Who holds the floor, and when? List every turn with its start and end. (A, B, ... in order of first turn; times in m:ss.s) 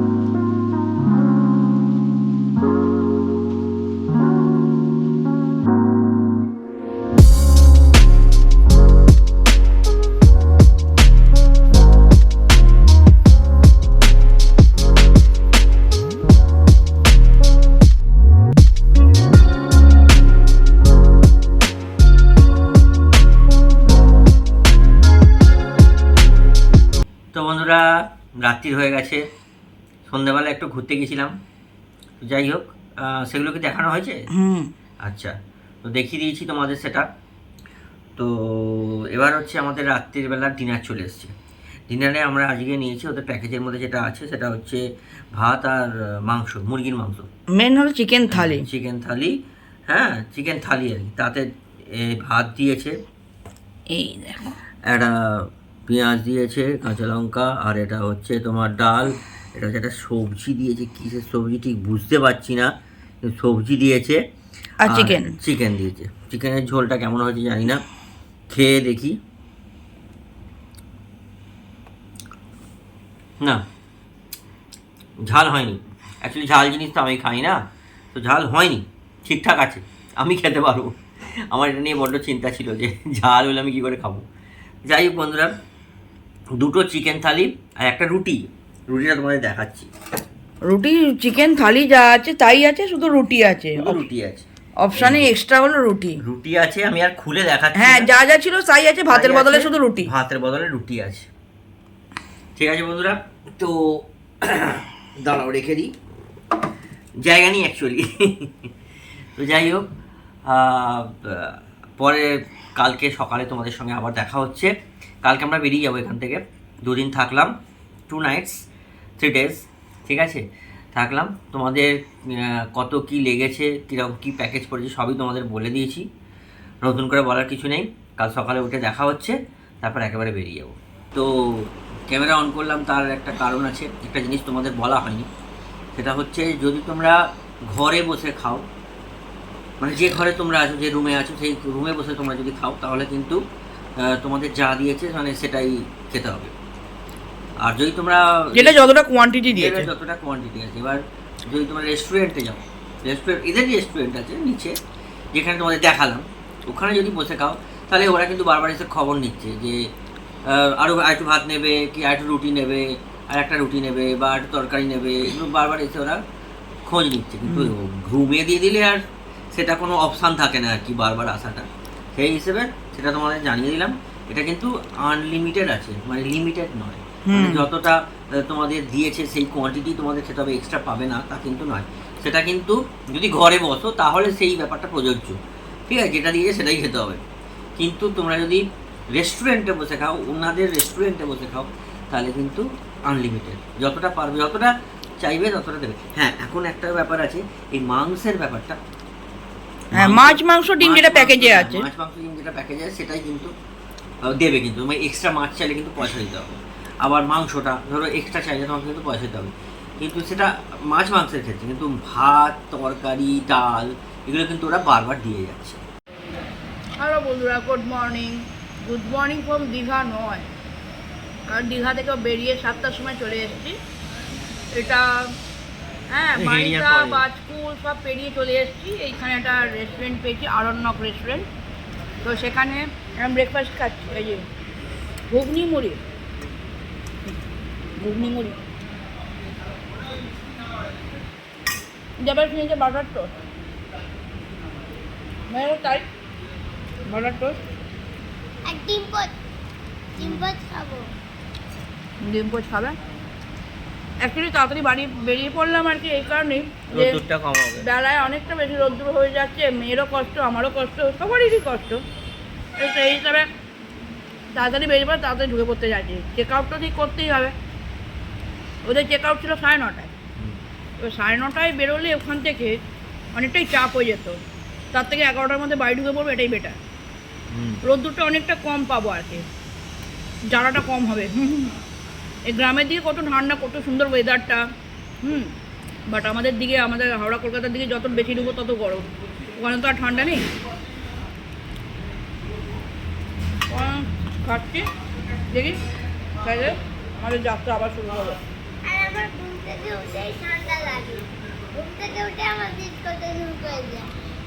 0:27.3-0:29.2 A
0:30.1-0:31.4 A
0:32.2-0:34.3 A
0:34.3-0:34.7 B
0:35.0-0:37.1 A
0:38.2-0:41.3 A
0:41.9-0:47.3 A
0:47.5-0:48.7 B
0:48.3-0:53.0 A
0:53.9-0:54.6 B
0:54.8-1:02.7 A
1:03.2-1:04.2 A
1:04.8-1:05.4 B
1:04.8-1:07.8 A
1:08.5-1:09.2 A
1:15.3-1:17.6 A
1:18.1-1:20.9 A
1:21.5-1:24.3 A
1:24.9-1:25.5 A
1:26.6-1:29.9 A
1:30.7-1:34.0 B
1:33.7-1:35.3 A
1:34.8-1:36.2 B
1:36.2-1:38.1 A
1:37.7-1:40.1 B
1:39.1-1:41.3 A
1:42.6-1:45.9 A
1:47.2-1:48.7 A
1:49.4-1:49.9 A
1:50.5-1:54.7 A
1:55.2-1:57.5 A
1:58.1-1:58.6 A
1:59.2-2:06.1 A
2:06.8-2:15.3 A
2:16.0-2:17.2 A
2:17.7-2:18.6 A
2:19.8-2:23.4 A
2:24.0-2:26.5 A
2:27.6-2:28.9 A
2:28.5-2:29.9 B
2:29.5-2:34.8 A
2:35.3-2:39.9 A
2:40.4-2:46.2 A
2:46.9-2:49.0 A
2:49.5-3:05.4 A
2:57.2-2:57.7 B
3:05.9-3:07.2 A
3:07.8-3:18.8 A
3:19.9-3:23.5 A
3:19.9-3:21.9 B
3:24.2-3:35.8 A
3:37.0-3:40.5 B
3:41.5-3:43.8 B
3:44.7-3:45.4 B
3:46.1-3:51.5 B
3:46.4-3:47.2 A
3:52.2-3:54.4 B
3:55.3-3:56.0 B
3:58.0-3:58.6 B
4:02.2-4:03.3 B
4:05.5-4:06.1 B
4:07.1-4:07.6 B
4:08.7-4:09.3 C
4:10.2-4:11.1 C
4:12.2-4:13.0 B
4:14.2-4:17.2 B
4:16.9-4:17.9 A
4:17.8-4:22.0 B
4:22.8-4:23.5 B
4:24.5-4:27.6 B
4:28.8-4:30.1 B
4:31.0-4:32.8 B
4:33.4-4:34.4 B
4:34.9-4:36.8 B
4:37.5-4:37.8 A
4:37.8-4:39.5 B
4:40.5-4:41.8 B
4:42.5-4:44.7 B
4:45.2-4:45.5 B
4:46.1-4:50.5 B
4:53.7-4:54.9 B
4:55.5-4:55.8 B
4:56.4-4:58.4 B
4:58.9-5:04.1 C